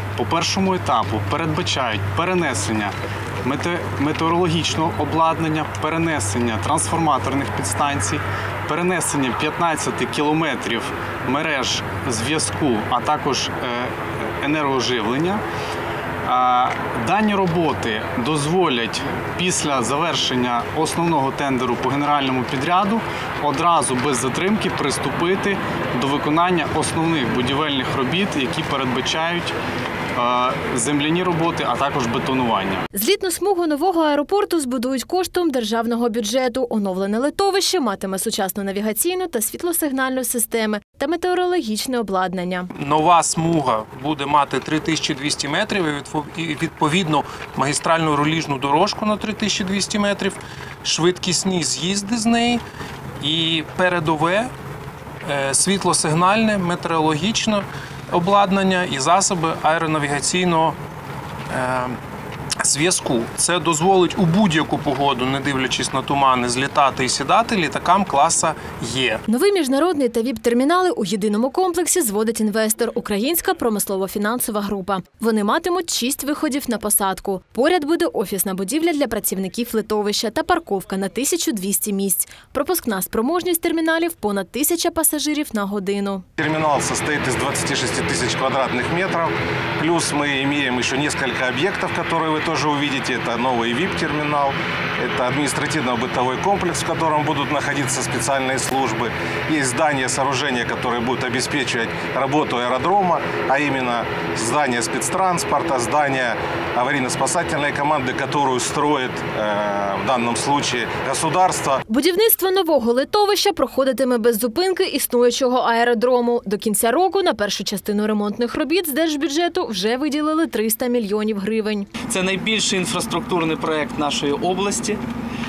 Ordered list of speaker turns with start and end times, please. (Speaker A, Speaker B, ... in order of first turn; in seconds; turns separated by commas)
Speaker A: 0.2-15.4, Speaker A: 16.3-29.6, Speaker A: 30.2-32.8, Speaker B: 32.9-42.7, Speaker C: 42.8-52.6, Speaker C: 53.2-54.5, Speaker C: 55.2-60.8, Speaker C: 61.5-62.0, Speaker C: 62.6-69.2, Speaker B: 69.3-86.2, Speaker D: 86.4-111.8, Speaker B: 111.9-121.9, Speaker E: 122.0-125.0